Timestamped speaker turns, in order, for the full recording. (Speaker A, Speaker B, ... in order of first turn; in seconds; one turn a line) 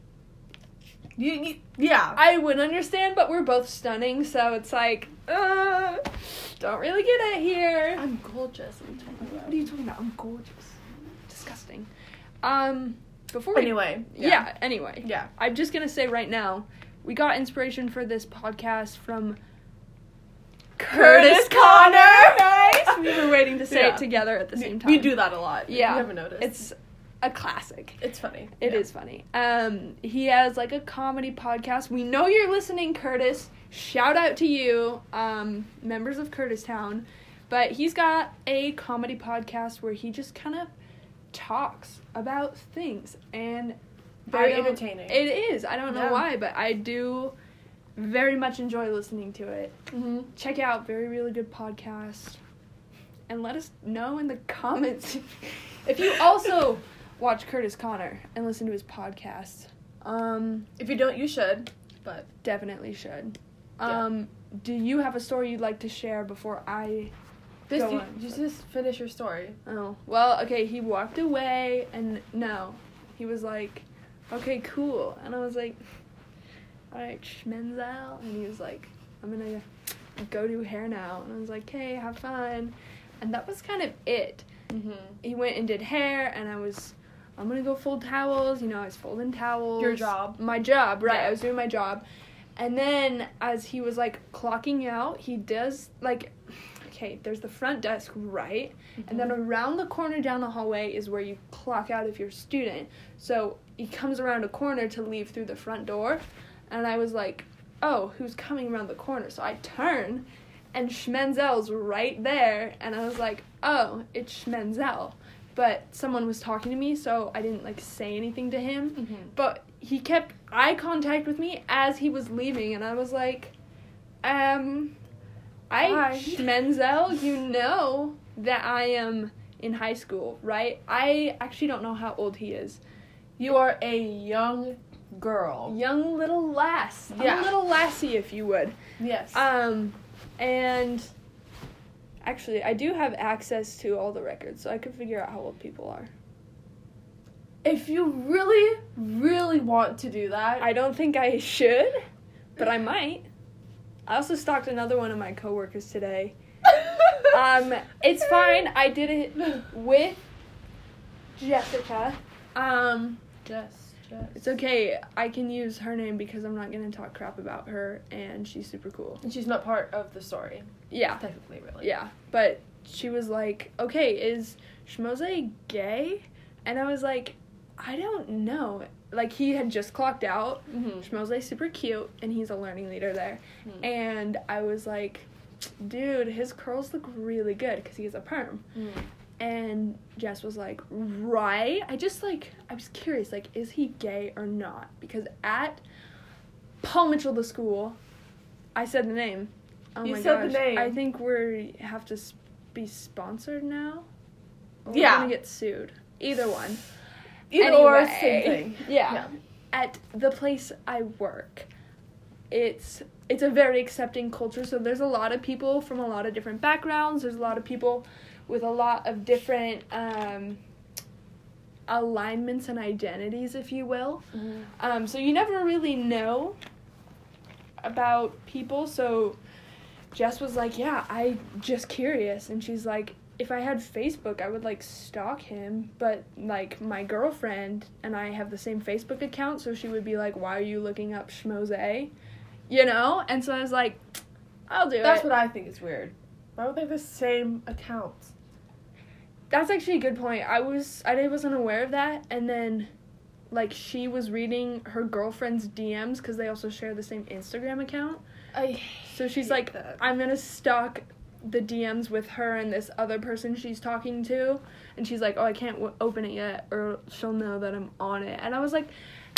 Speaker A: 1.2-2.2
Speaker B: 2.1-8.0
Speaker A: 8.0-9.6
Speaker B: 9.2-11.9
Speaker B: 12.4-19.4
Speaker A: 13.5-14.5
Speaker A: 15.0-15.3
Speaker B: 20.8-25.1
Speaker A: 20.9-26.6
Speaker B: 25.7-28.0
Speaker A: 28.0-28.8
Speaker B: 28.6-40.7
Speaker B: 41.3-43.8
Speaker A: 44.3-45.2
Speaker B: 44.3-47.3
Speaker A: 45.9-46.2
Speaker B: 48.0-49.8
Speaker A: 49.9-50.3
Speaker B: 50.3-52.4
Speaker B: 53.3-60.7
Speaker A: 60.8-62.3
Speaker B: 62.4-67.1
Speaker A: 67.7-69.6
Speaker B: 67.7-68.4
Speaker B: 69.7-75.8
Speaker B: 76.9-79.6
Speaker B: 80.2-84.5
Speaker A: 84.7-85.2
Speaker B: 85.2-92.0
Speaker A: 89.8-90.4
Speaker A: 91.0-91.3
Speaker B: 92.6-123.5
Speaker A: 99.0-99.3
Speaker A: 119.0-119.3
Speaker B: 124.2-125.0
Speaker B: 125.7-132.8
Speaker A: 125.8-126.5
Speaker A: 133.4-135.8
Speaker B: 135.7-138.7
Speaker A: 137.1-137.5
Speaker A: 139.0-139.4
Speaker B: 139.3-141.1
Speaker B: 142.2-146.1
Speaker A: 147.6-150.7
Speaker B: 150.6-152.0
Speaker B: 152.6-153.3
Speaker B: 154.1-156.3
Speaker B: 157.1-160.2
Speaker B: 161.4-163.2
Speaker A: 163.4-164.6
Speaker B: 164.3-169.2
Speaker A: 169.2-171.9
Speaker B: 170.9-171.2
Speaker B: 171.8-185.3
Speaker A: 180.7-181.1
Speaker B: 185.8-188.7
Speaker A: 188.7-189.1
Speaker B: 189.4-195.8
Speaker B: 196.8-198.0
Speaker B: 198.7-204.1
Speaker A: 200.0-201.0
Speaker B: 204.8-206.8
Speaker A: 204.9-205.3
Speaker A: 207.5-209.3
Speaker B: 207.6-211.7
Speaker B: 212.5-220.6
Speaker B: 221.9-224.2
Speaker A: 224.3-224.7
Speaker B: 224.8-226.6
Speaker B: 227.8-229.4
Speaker B: 230.1-242.1
Speaker B: 242.7-244.0
Speaker B: 244.7-245.3
Speaker A: 245.0-248.3
Speaker B: 249.5-252.9
Speaker B: 253.5-258.2
Speaker A: 258.5-260.0
Speaker B: 259.1-268.9